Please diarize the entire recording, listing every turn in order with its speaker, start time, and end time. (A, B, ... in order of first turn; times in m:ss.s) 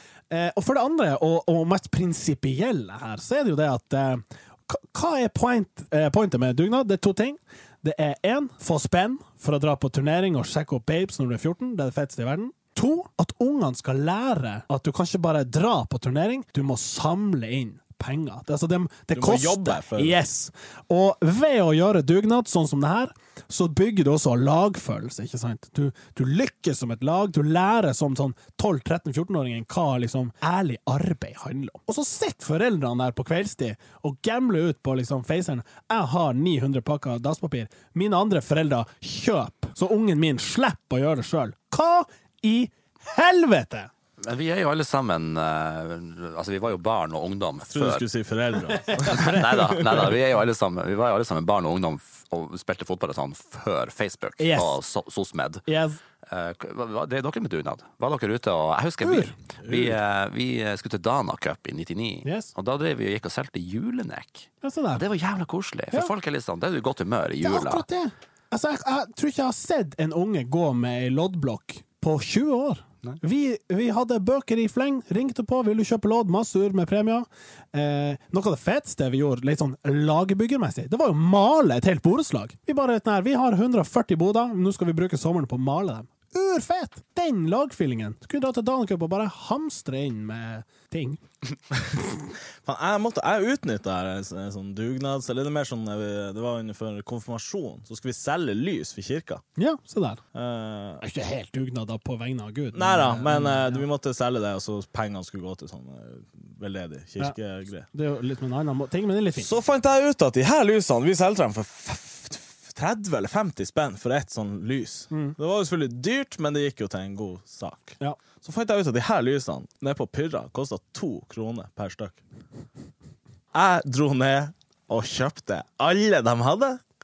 0:00.3-0:43.9 A
0:19.1-0:20.2 B
0:44.2-0:48.0 C
0:47.7-0:50.0 B
0:48.8-0:49.5 A
0:49.0-0:55.7 C
0:54.4-0:54.8 A
0:55.7-0:56.0 A
0:56.3-1:07.8 C
0:59.0-0:59.3 A
0:59.6-1:00.0 B
1:02.2-1:02.5 A
1:04.6-1:05.0 A
1:07.4-1:31.2 A
1:32.6-1:39.4 B
1:39.6-1:40.2 A
1:40.3-1:41.0 B
1:41.0-1:43.8 A
1:42.7-1:47.9 B
1:47.9-1:49.5 A
1:49.4-2:02.2 B
2:03.5-2:06.8 B